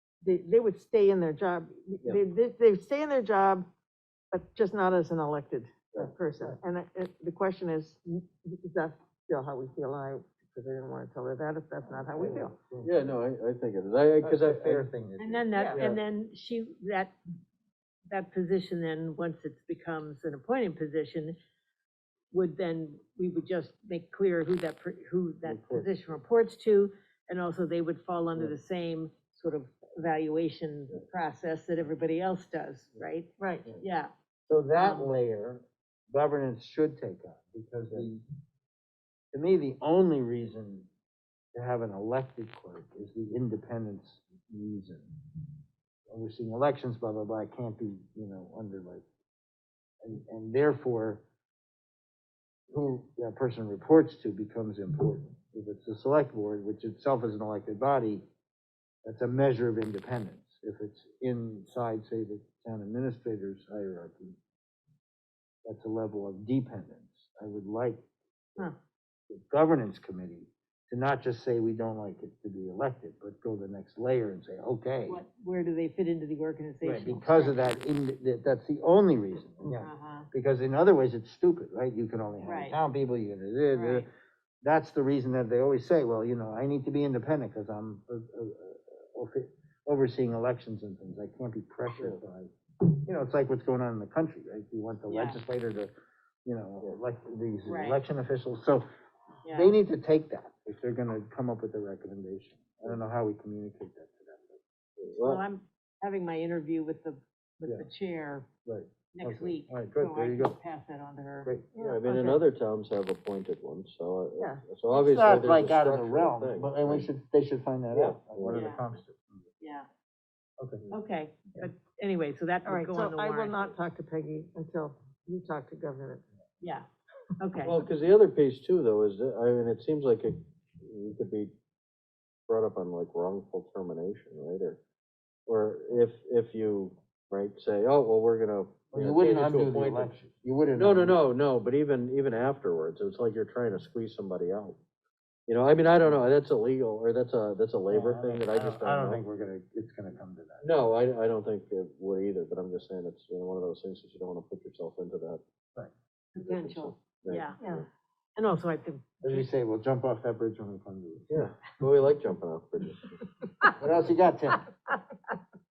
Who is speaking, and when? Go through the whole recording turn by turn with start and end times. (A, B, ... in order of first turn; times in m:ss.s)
0:00.2-0:03.7 A
0:04.3-0:12.5 A
0:11.8-0:13.1 B
0:12.8-0:14.9 C
0:14.2-0:15.9 B
0:15.2-0:17.1 D
0:15.7-0:16.0 C
0:18.1-0:21.4 D
0:22.3-0:34.1 D
0:25.5-0:25.9 B
0:33.4-0:33.7 A
0:34.5-0:38.2 B
0:34.8-0:35.1 D
0:39.3-0:40.9 B
0:41.5-0:45.1 B
0:46.1-0:49.0 B
0:50.0-0:51.2 B
0:52.7-0:58.2 B
0:59.0-1:04.4 B
1:05.6-1:08.0 B
1:09.3-1:15.2 B
1:15.1-1:17.8 D
1:16.8-1:24.1 B
1:19.8-1:20.3 D
1:22.4-1:22.8 D
1:23.7-1:24.1 D
1:24.6-1:35.9 B
1:32.0-1:32.2 C
1:35.1-1:35.4 D
1:36.4-1:38.9 B
1:37.7-1:38.0 D
1:39.5-1:39.7 D
1:39.5-1:44.6 B
1:45.0-1:45.4 C
1:45.2-1:48.5 D
1:48.7-1:50.6 B
1:49.1-1:51.5 D
1:51.7-1:52.4 A
1:51.8-1:57.1 C
1:54.9-1:59.4 B
1:57.9-1:58.8 C
1:58.5-1:58.8 D
1:59.6-1:59.9 D
2:00.9-2:03.6 D
2:02.7-2:06.2 A
2:06.6-2:06.9 D
2:07.4-2:07.8 D
2:07.6-2:11.5 C
2:12.5-2:14.8 C
2:15.5-2:20.1 C
2:18.9-2:21.2 B
2:20.8-2:24.8 C
2:25.5-2:29.2 C
2:27.9-2:30.7 B
2:30.6-2:35.4 C
2:36.4-2:37.6 D
2:36.4-2:37.9 C
2:37.6-2:37.8 A
2:38.4-2:39.5 D
2:39.2-2:41.5 B
2:41.3-2:43.2 C
2:43.8-2:44.6 B